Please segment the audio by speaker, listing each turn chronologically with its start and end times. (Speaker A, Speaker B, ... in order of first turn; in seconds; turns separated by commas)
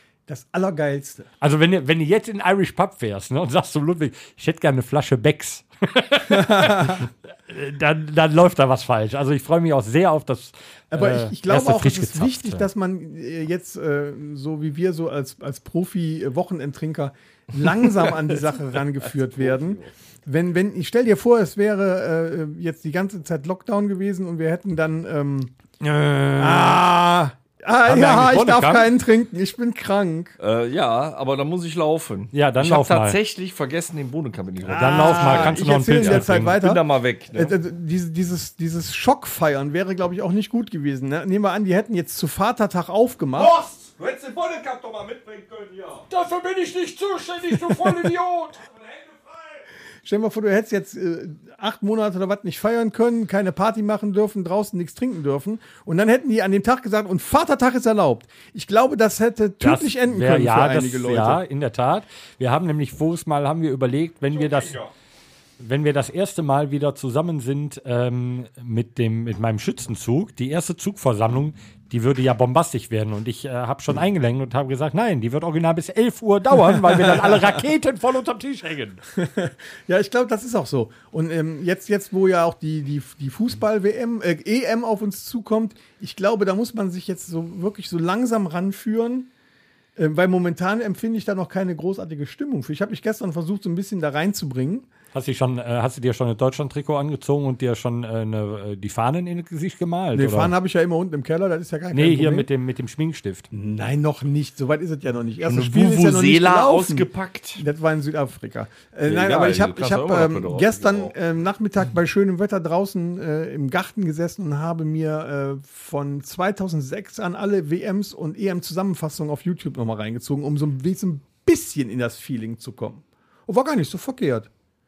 Speaker A: 0.3-1.3, Speaker B: 1.4-12.7, Speaker A: 6.3-7.1, Speaker A: 10.9-25.5, Speaker C: 19.4-19.8, Speaker B: 25.8-26.9, Speaker A: 26.4-30.4, Speaker B: 27.9-28.9, Speaker C: 30.4-37.6, Speaker B: 32.3-33.2, Speaker A: 34.6-36.8, Speaker B: 34.8-36.6, Speaker A: 37.4-43.5, Speaker C: 43.4-46.1, Speaker B: 46.1-48.6, Speaker C: 48.7-49.6, Speaker A: 50.0-61.4, Speaker B: 59.6-64.8, Speaker C: 64.4-64.9, Speaker B: 65.6-79.0, Speaker A: 76.9-77.6, Speaker A: 79.2-89.3, Speaker A: 90.0-94.9, Speaker B: 95.1-100.5, Speaker A: 100.1-102.5, Speaker B: 101.9-103.5, Speaker A: 103.5-107.1, Speaker C: 105.4-107.6, Speaker A: 107.6-124.5, Speaker C: 109.1-111.1